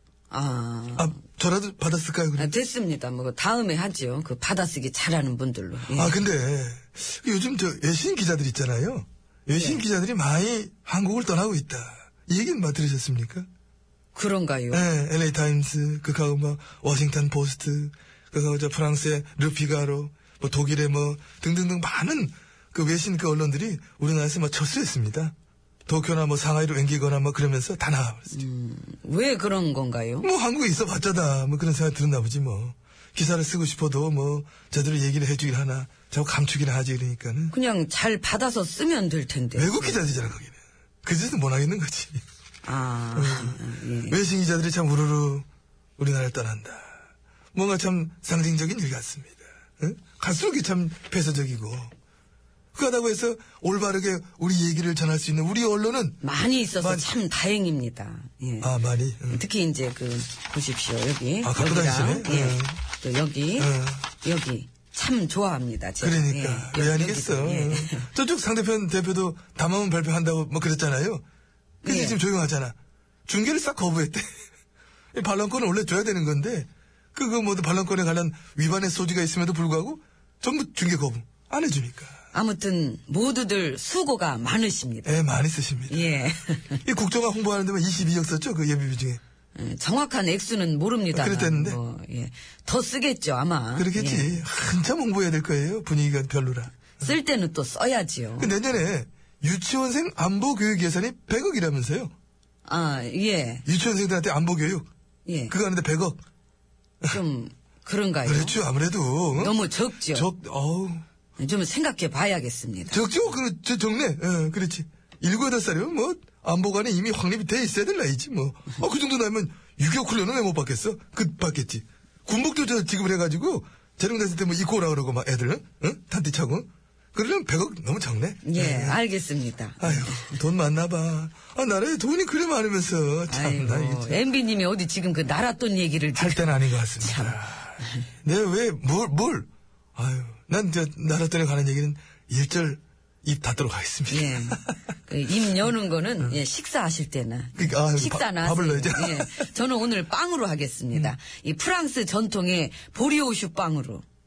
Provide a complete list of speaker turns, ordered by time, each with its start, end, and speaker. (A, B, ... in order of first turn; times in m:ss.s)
0:00.3-0:01.1 A
0:01.0-0:02.5 B
0:02.4-0:06.2 A
0:05.9-0:13.5 B
0:09.6-0:09.8 A
0:14.1-0:14.8 A
0:14.7-0:25.3 B
0:25.9-0:28.4 B
0:28.3-0:30.3 A
0:30.2-0:37.5 B
0:37.5-0:40.0 A
0:39.6-0:42.2 B
0:42.6-0:44.2 A
0:43.1-0:45.4 B
0:46.0-0:46.9 B
0:47.5-0:51.9 B
0:52.7-0:56.2 B
0:56.2-0:58.7 A
0:56.8-0:57.1 B
0:58.6-0:59.4 B
0:59.3-1:08.1 A
1:01.4-1:02.8 B
1:03.6-1:04.1 B
1:06.0-1:11.2 B
1:11.8-1:12.2 A
1:11.8-1:14.3 B
1:15.1-1:22.2 B
1:22.3-1:25.2 A
1:25.0-1:26.2 B
1:25.9-1:26.8 A
1:26.8-1:29.2 B
1:29.6-1:34.4 A
1:31.1-1:31.8 B
1:33.8-1:37.1 B
1:37.0-1:38.5 A
1:38.4-1:42.1 B
1:42.6-1:43.6 A
1:43.6-1:44.9 B
1:45.2-1:45.5 A
1:45.5-1:46.2 B
1:47.0-1:48.6 A
1:48.2-1:51.0 B
1:49.3-1:50.3 A
1:51.4-1:53.0 A
1:52.9-2:09.0 B
2:08.4-2:10.4 A
2:09.8-2:14.2 B
2:13.3-2:18.1 A
2:16.1-2:24.6 B
2:24.1-2:34.0 A
2:27.6-2:29.5 B